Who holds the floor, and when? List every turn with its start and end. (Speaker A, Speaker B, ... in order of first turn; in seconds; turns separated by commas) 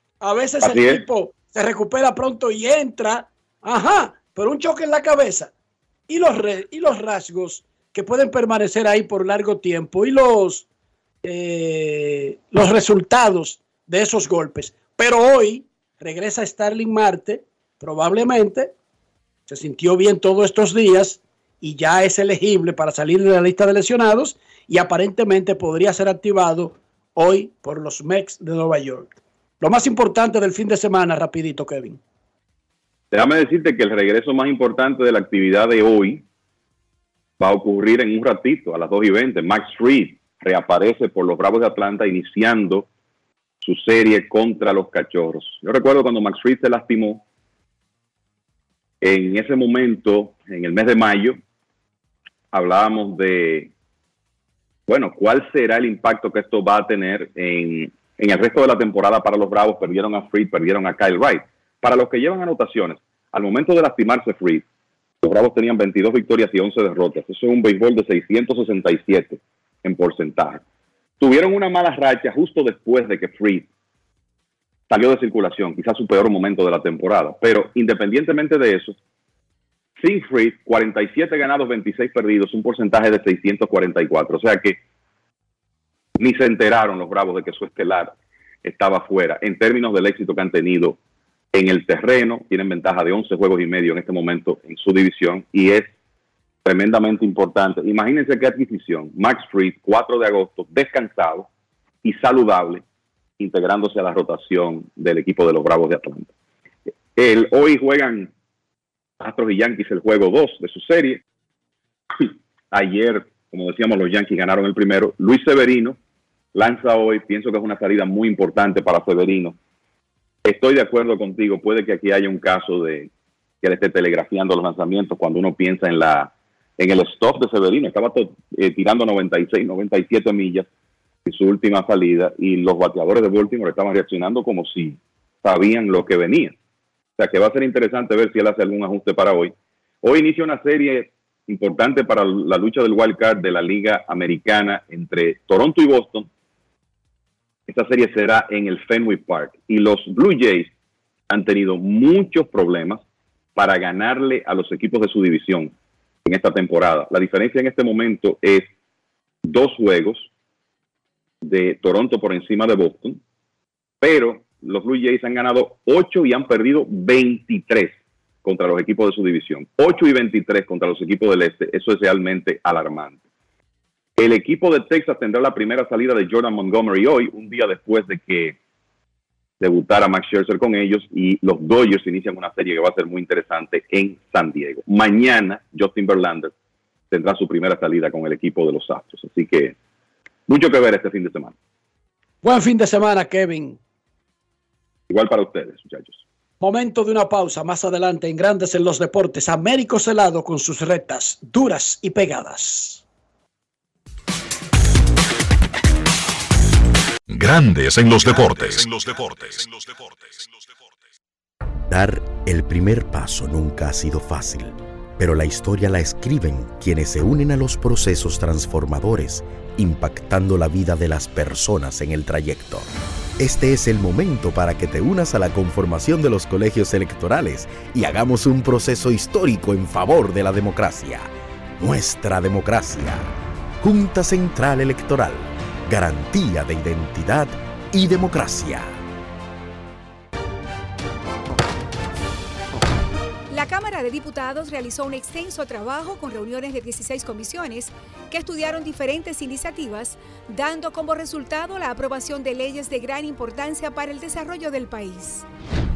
Speaker A: 0.2-5.5, Speaker B: 0.6-1.0, Speaker A: 6.1-10.6, Speaker A: 11.2-18.7, Speaker A: 19.5-32.0, Speaker B: 33.1-36.2, Speaker B: 37.4-42.9, Speaker B: 43.6-47.2, Speaker B: 49.0-51.4, Speaker B: 52.5-53.7, Speaker B: 54.9-64.6, Speaker B: 65.2-70.6, Speaker B: 71.2-73.7, Speaker B: 74.9-79.0, Speaker B: 80.0-84.8, Speaker B: 86.2-91.0, Speaker B: 91.5-95.9, Speaker B: 96.6-101.5, Speaker B: 102.0-102.8, Speaker B: 103.4-106.3, Speaker B: 107.2-108.3, Speaker B: 109.2-111.2, Speaker B: 112.2-116.0, Speaker B: 116.5-119.5, Speaker B: 120.4-123.1, Speaker B: 123.6-130.7, Speaker B: 131.2-136.5, Speaker B: 137.2-146.3, Speaker B: 147.7-150.7, Speaker B: 151.3-153.0, Speaker B: 153.5-155.7, Speaker B: 156.2-158.7, Speaker B: 159.4-160.3, Speaker B: 161.4-163.2, Speaker B: 164.0-173.2, Speaker B: 174.2-178.6, Speaker B: 179.6-186.5, Speaker B: 187.1-189.7, Speaker B: 190.5-191.5, Speaker A: 192.4-193.8, Speaker B: 195.1-196.2, Speaker A: 196.6-203.0, Speaker C: 207.3-210.5, Speaker D: 211.9-233.3, Speaker D: 233.8-239.0, Speaker E: 243.5-255.4